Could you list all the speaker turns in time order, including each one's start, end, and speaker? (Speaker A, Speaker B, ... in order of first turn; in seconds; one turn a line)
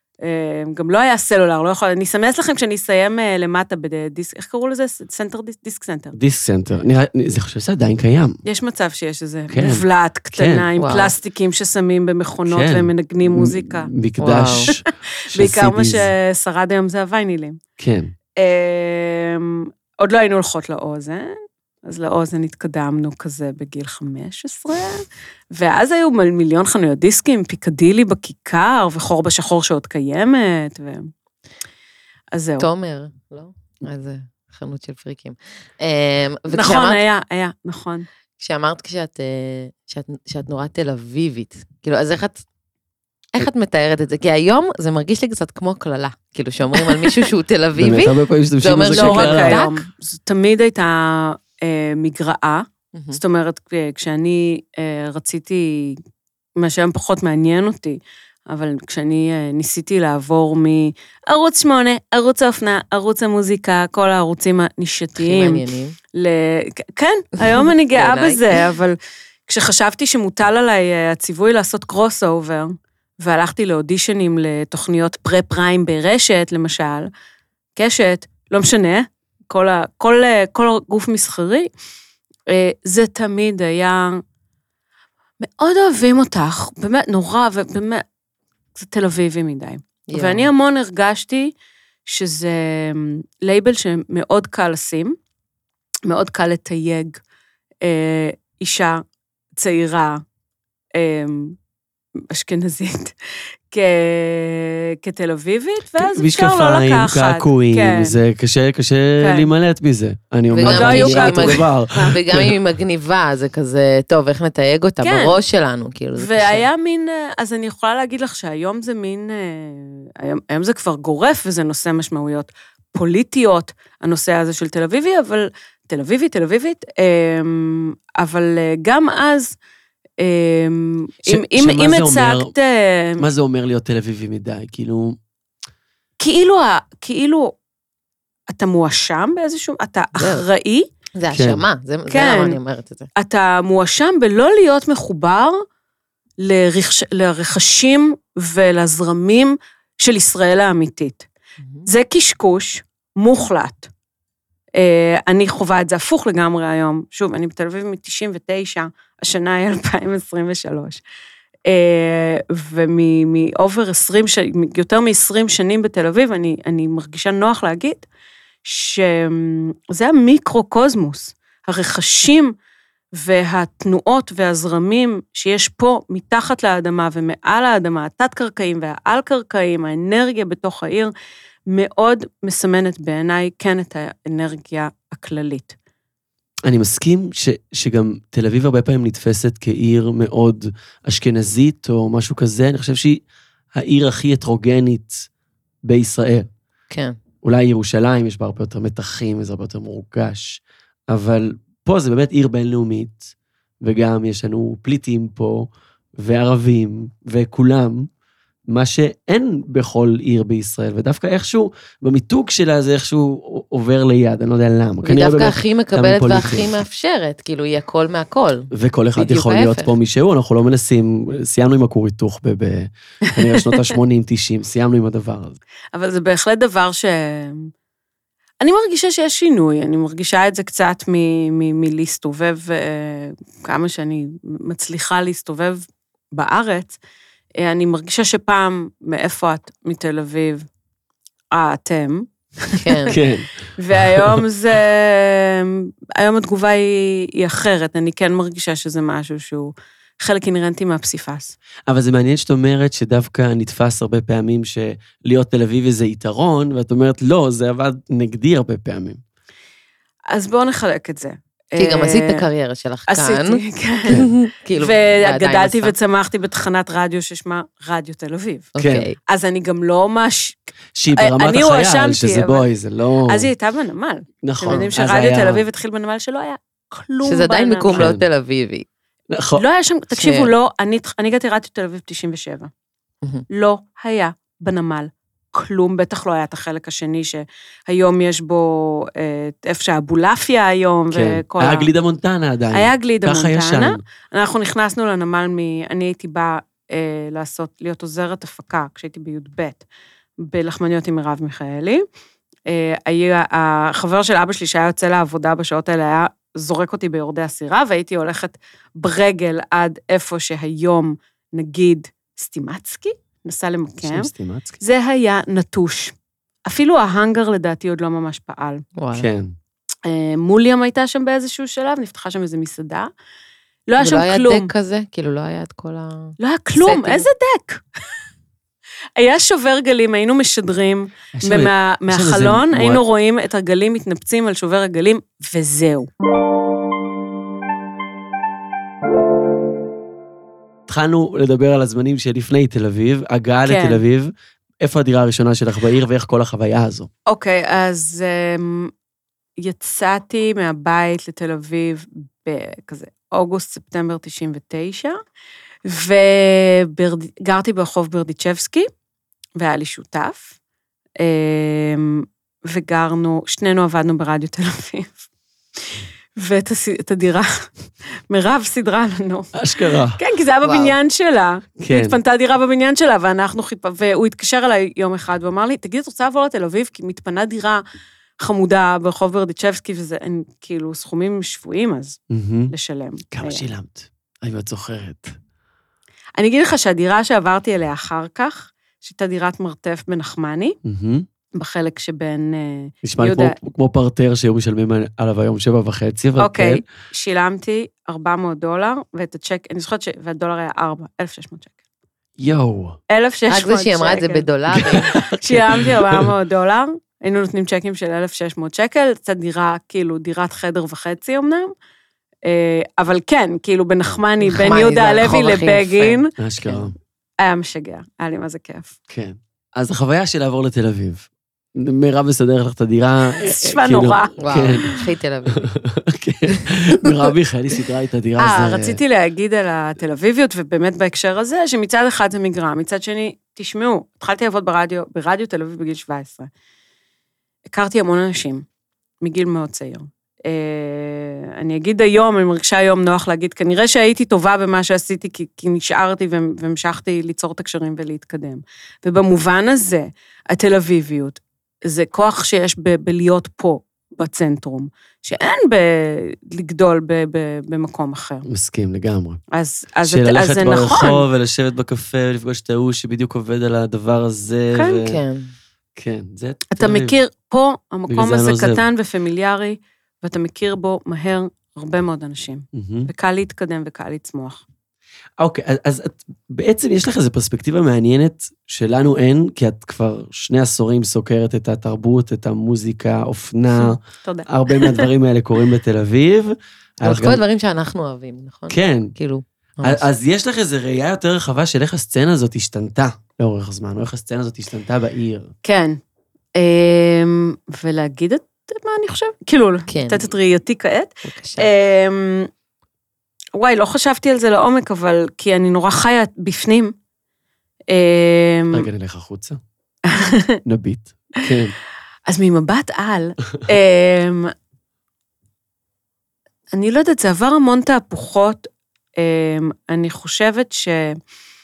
Speaker A: 0.2-6.2
Speaker B: 6.2-8.4
Speaker A: 8.4-13.9
Speaker B: 9.5-10.7
Speaker C: 10.8-11.1
Speaker B: 12.5-16.1
Speaker C: 14.2-14.7
Speaker A: 14.7-17.6
Speaker B: 17.8-18.1
Speaker A: 18.4-31.1
Speaker A: 32.3-32.7
Speaker C: 32.6-37.0
Speaker A: 36.5-38.1
Speaker C: 38.4-42.4
Speaker C: 43.4-49.8
Speaker B: 47.8-49.6
Speaker A: 48.9-56.0
Speaker C: 52.9-53.2
Speaker A: 56.6-65.6
Speaker C: 65.2-66.0
Speaker A: 66.1-77.1
Speaker C: 67.9-68.4
Speaker A: 77.8-81.7
Speaker A: 82.5-84.2
Speaker A: 85.4-88.0
Speaker A: 88.8-91.5
Speaker C: 90.1-90.5
Speaker A: 92.1-95.2
Speaker A: 96.1-97.2
Speaker A: 97.8-99.0
Speaker A: 99.6-100.2
Speaker A: 101.0-101.6
Speaker A: 102.2-103.1
Speaker A: 103.7-108.2
Speaker B: 106.0-112.5
Speaker A: 109.2-109.5
Speaker C: 110.5-116.7
Speaker A: 110.7-112.2
Speaker A: 115.0-115.4
Speaker A: 116.2-129.6
Speaker A: 130.2-133.2
Speaker B: 131.3-132.5
Speaker B: 133.2-135.2
Speaker A: 136.2-137.5
Speaker A: 138.5-140.9
Speaker C: 140.2-140.4
Speaker C: 141.2-143.1
Speaker B: 141.3-141.6
Speaker A: 142.1-142.6
Speaker A: 143.2-145.6
Speaker A: 146.4-151.3
Speaker A: 151.8-153.9
Speaker A: 154.8-161.0
Speaker A: 161.7-168.1
Speaker A: 168.6-172.6
Speaker A: 173.2-181.1
Speaker A: 181.7-185.8
Speaker B: 186.7-193.2
Speaker B: 193.7-195.3
Speaker B: 195.8-196.5
Speaker C: 196.9-197.2
Speaker B: 197.4-208.1
Speaker B: 208.7-216.7
Speaker C: 215.0-219.9
Speaker B: 218.7-225.6
Speaker A: 225.9-227.7
Speaker A: 228.6-237.0
Speaker A: 237.6-240.7
Speaker A: 241.5-243.2
Speaker C: 242.8-243.2
Speaker B: 243.1-244.4
Speaker A: 243.8-251.6
Speaker B: 251.9-259.2
Speaker A: 260.3-262.4
Speaker C: 261.8-265.9
Speaker A: 263.1-268.7
Speaker C: 268.8-269.2
Speaker B: 268.8-269.1
Speaker A: 269.3-270.6
Speaker B: 271.0-273.5
Speaker A: 271.1-272.7
Speaker A: 273.2-278.1
Speaker B: 274.4-275.6
Speaker C: 277.2-278.9
Speaker B: 277.9-278.3
Speaker B: 279.3-279.6
Speaker A: 279.6-282.7
Speaker C: 280.1-280.5
Speaker A: 283.5-291.9
Speaker B: 291.1-294.0
Speaker A: 292.7-299.9
Speaker A: 300.4-302.0
Speaker A: 302.7-314.3
Speaker B: 314.0-314.8
Speaker A: 314.8-316.1
Speaker A: 316.7-318.8
Speaker C: 319.0-319.3
Speaker B: 319.1-319.5
Speaker A: 320.1-323.1
Speaker A: 323.9-324.7
Speaker C: 324.0-327.3
Speaker A: 326.4-327.8
Speaker A: 329.2-336.1
Speaker B: 331.3-333.0
Speaker B: 340.9-347.1
Speaker A: 343.7-344.0
Speaker A: 347.3-348.9
Speaker A: 349.6-355.2
Speaker A: 355.9-358.9
Speaker A: 359.6-360.5
Speaker A: 361.2-365.2
Speaker A: 365.9-367.7
Speaker A: 368.3-377.8
Speaker B: 369.6-370.2
Speaker C: 370.6-370.9
Speaker B: 371.8-372.2
Speaker A: 378.4-382.2
Speaker B: 382.3-382.7
Speaker A: 382.7-383.6
Speaker B: 383.3-385.4
Speaker A: 386.4-390.8
Speaker B: 390.9-391.3
Speaker A: 391.5-393.6
Speaker B: 393.0-396.8
Speaker A: 396.4-401.8
Speaker B: 402.4-403.0
Speaker A: 403.1-411.7
Speaker C: 403.5-405.1
Speaker B: 404.7-406.3
Speaker A: 412.4-416.3
Speaker C: 414.4-416.9
Speaker B: 416.4-416.9
Speaker A: 417.4-419.0
Speaker B: 419.1-424.9
Speaker A: 423.4-424.9
Speaker C: 424.4-425.7
Speaker B: 425.6-429.0
Speaker A: 428.4-436.5
Speaker A: 437.7-438.6
Speaker A: 439.2-458.5
Speaker B: 458.5-459.4
Speaker A: 459.5-461.2
Speaker B: 460.1-465.2
Speaker A: 464.7-465.1
Speaker C: 465.0-465.5
Speaker B: 466.0-467.2
Speaker A: 466.7-474.6
Speaker B: 468.1-468.8
Speaker B: 472.7-473.1
Speaker B: 475.4-487.4
Speaker A: 483.7-485.1
Speaker C: 487.0-490.1
Speaker B: 488.7-489.1
Speaker B: 489.8-495.5
Speaker A: 495.6-496.0
Speaker A: 496.6-502.5
Speaker C: 499.9-500.3
Speaker C: 501.3-501.7
Speaker A: 503.6-506.9
Speaker A: 507.9-508.9
Speaker B: 508.7-509.6
Speaker A: 510.1-510.6
Speaker B: 510.6-511.7
Speaker A: 512.3-514.5
Speaker A: 516.7-521.2